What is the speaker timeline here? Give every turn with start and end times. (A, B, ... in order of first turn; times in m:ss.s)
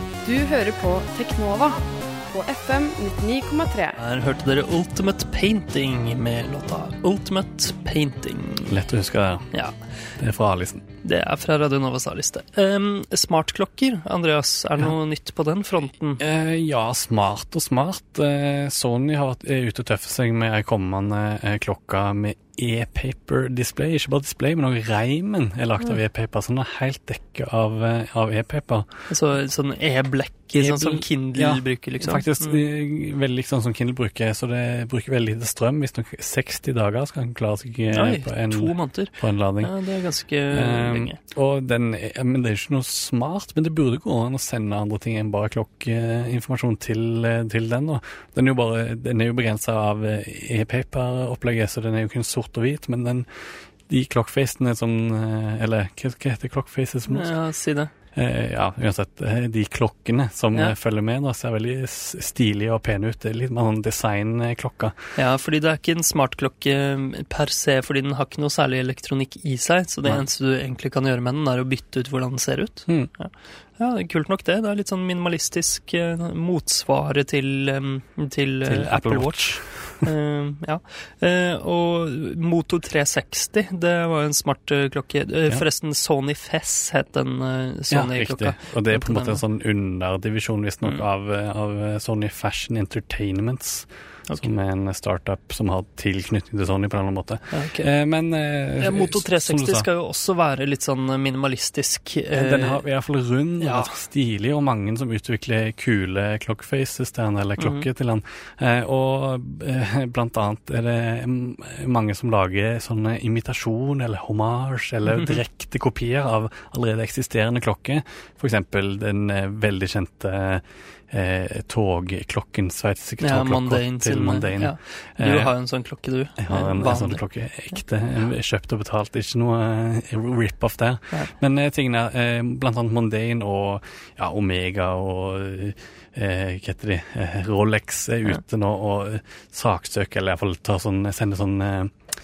0:00.2-0:01.8 A
0:02.3-0:04.0 A
0:04.0-0:08.7 B
0:08.7-0:09.5 C
0:10.2-0:10.8 C
0:11.0-0:16.2 B
0:16.2-0:28.9 C
0:29.1-0:32.6 B
0:30.6-0:39.8 C
0:37.9-0:41.2 B
0:40.5-0:57.3 C
0:57.1-0:57.9 B
0:58.1-1:04.9 C
1:05.2-1:29.4 B
1:18.6-1:20.0 C
1:27.9-1:39.9 C
1:37.5-1:37.9 B
1:38.8-1:42.8 B
1:42.3-2:05.5 C
1:43.6-1:44.0 B
1:47.6-1:47.8 B
1:55.0-1:55.4 B
2:03.2-2:07.2 B
2:06.4-2:21.9 C